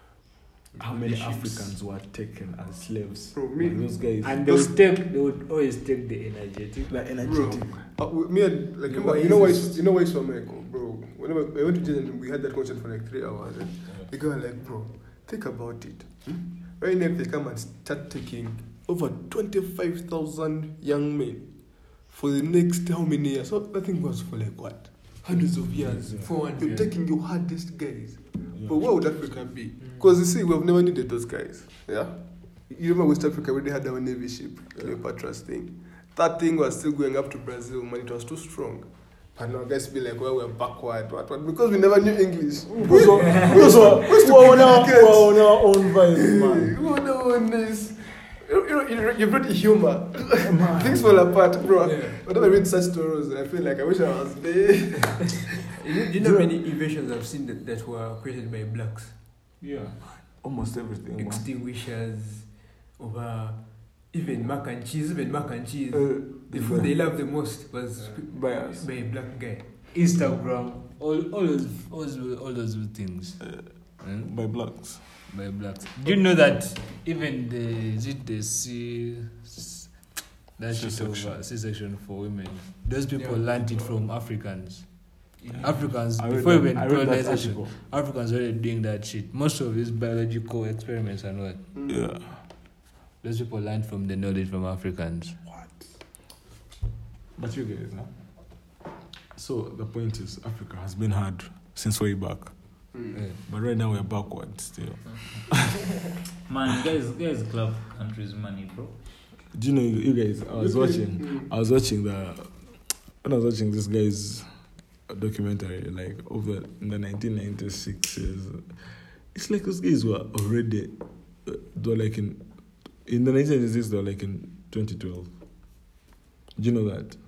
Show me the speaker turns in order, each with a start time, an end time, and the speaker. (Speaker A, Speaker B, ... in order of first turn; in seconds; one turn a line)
Speaker A: 0.8-1.7
Speaker B: 0.8-4.6
Speaker C: 3.3-3.9
Speaker D: 4.2-6.9
Speaker B: 6.9-7.8
Speaker C: 7.2-21.5
Speaker A: 8.8-9.8
Speaker C: 22.0-32.2
Speaker B: 25.8-26.3
Speaker A: 25.9-26.9
Speaker C: 32.7-55.6
Speaker B: 42.7-46.8
Speaker A: 42.9-44.0
Speaker B: 50.4-51.3
Speaker A: 51.8-52.2
Speaker A: 55.7-59.1
Speaker B: 56.2-56.5
Speaker B: 60.0-61.5
Speaker A: 61.2-69.7
Speaker B: 65.9-66.9
Speaker B: 68.1-68.9
Speaker D: 69.9-73.4
Speaker B: 73.4-75.0
Speaker D: 74.0-91.6
Speaker B: 80.7-81.4
Speaker A: 83.1-83.9
Speaker A: 85.4-85.8
Speaker B: 85.5-87.7
Speaker C: 91.7-92.1
Speaker B: 91.9-92.4
Speaker D: 93.2-95.4
Speaker B: 97.4-98.1
Speaker B: 99.3-102.5
Speaker B: 103.4-105.7
Speaker E: 106.5-109.0
Speaker B: 109.5-114.5
Speaker C: 110.6-111.5
Speaker B: 115.1-118.7
Speaker B: 119.3-120.9
Speaker B: 121.4-122.4
Speaker B: 123.0-125.3
Speaker B: 126.5-127.2